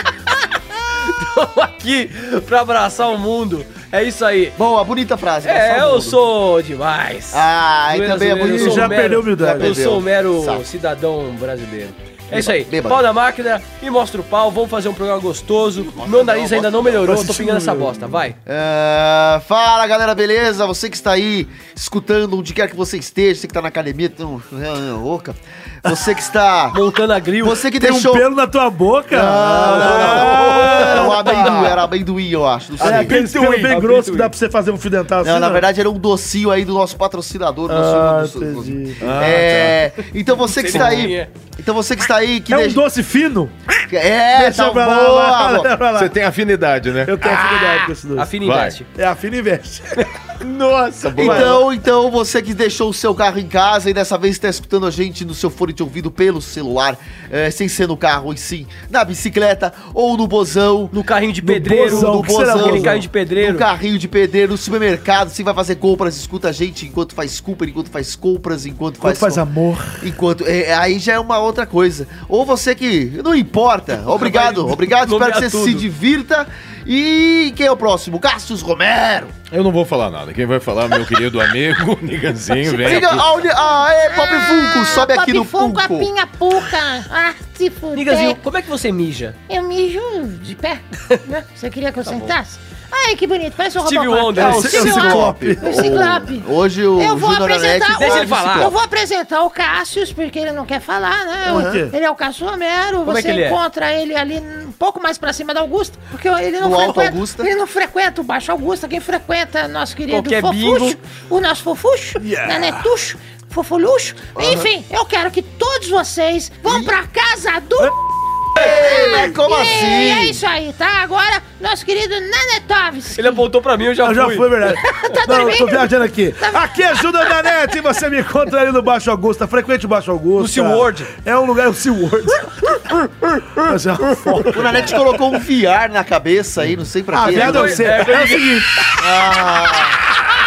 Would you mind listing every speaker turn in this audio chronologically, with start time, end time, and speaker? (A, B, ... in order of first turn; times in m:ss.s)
0:00.9-0:04.6 A
0:04.6-0:06.2 B
0:05.4-0:18.4 A
0:07.3-0:10.6 B
0:08.4-0:09.8 C
0:12.3-0:13.0 B
0:15.8-0:17.1 B
0:17.0-0:18.1 C
0:18.5-0:26.8 B
0:26.7-0:27.7 A
0:27.4-0:28.3 B
0:27.8-0:31.8 C
0:29.1-0:33.2 B
0:29.6-0:31.9 D
0:32.8-0:33.9 D
0:32.8-0:35.7 C
0:33.1-0:34.3 A
0:35.2-0:42.8 B
0:37.7-0:39.1 C
0:39.0-0:39.8 D
0:40.5-0:41.3 A
0:42.5-0:43.6 C
0:43.9-0:45.7 B
0:44.3-0:46.2 C
0:45.9-0:47.9 D
0:47.0-0:48.3 C
0:48.2-0:48.8 A
0:48.4-0:48.8 D
0:48.9-0:50.1 C
0:50.4-0:51.6 D
0:51.2-0:51.6 C
0:51.2-1:01.0 B
1:00.9-1:03.7 A
1:01.4-1:03.0 C
1:01.8-1:09.4 B
1:09.0-1:10.1 C
1:10.0-1:19.4 B
1:14.1-1:15.9 A
1:19.5-1:23.3 D
1:22.7-1:26.1 B
1:22.8-1:23.2 A
1:24.1-1:28.4 E
1:27.9-1:29.4 A
1:29.5-1:58.0 E
1:32.1-1:32.3 B
1:33.8-1:34.8 A
1:34.4-1:38.8 B
1:34.4-1:36.0 C
1:37.9-1:38.7 A
1:41.5-1:41.9 C
1:41.5-1:41.8 B
1:43.0-1:43.6 A
1:46.6-1:47.5 B
1:50.1-1:51.0 A
1:52.2-1:52.8 C
1:54.4-1:54.7 B
1:56.7-1:56.9 B
1:58.6-2:03.4 E
1:58.6-2:00.4 B
2:03.2-2:05.0 A
2:04.0-2:12.9 C
2:04.8-2:07.6 E
2:10.4-2:11.1 A
2:13.2-2:13.6 D
2:13.6-2:14.9 C
2:14.2-2:14.5 D
2:14.5-2:17.8 B
2:17.1-2:18.8 C
2:17.3-2:18.6 A
2:18.9-2:20.0 B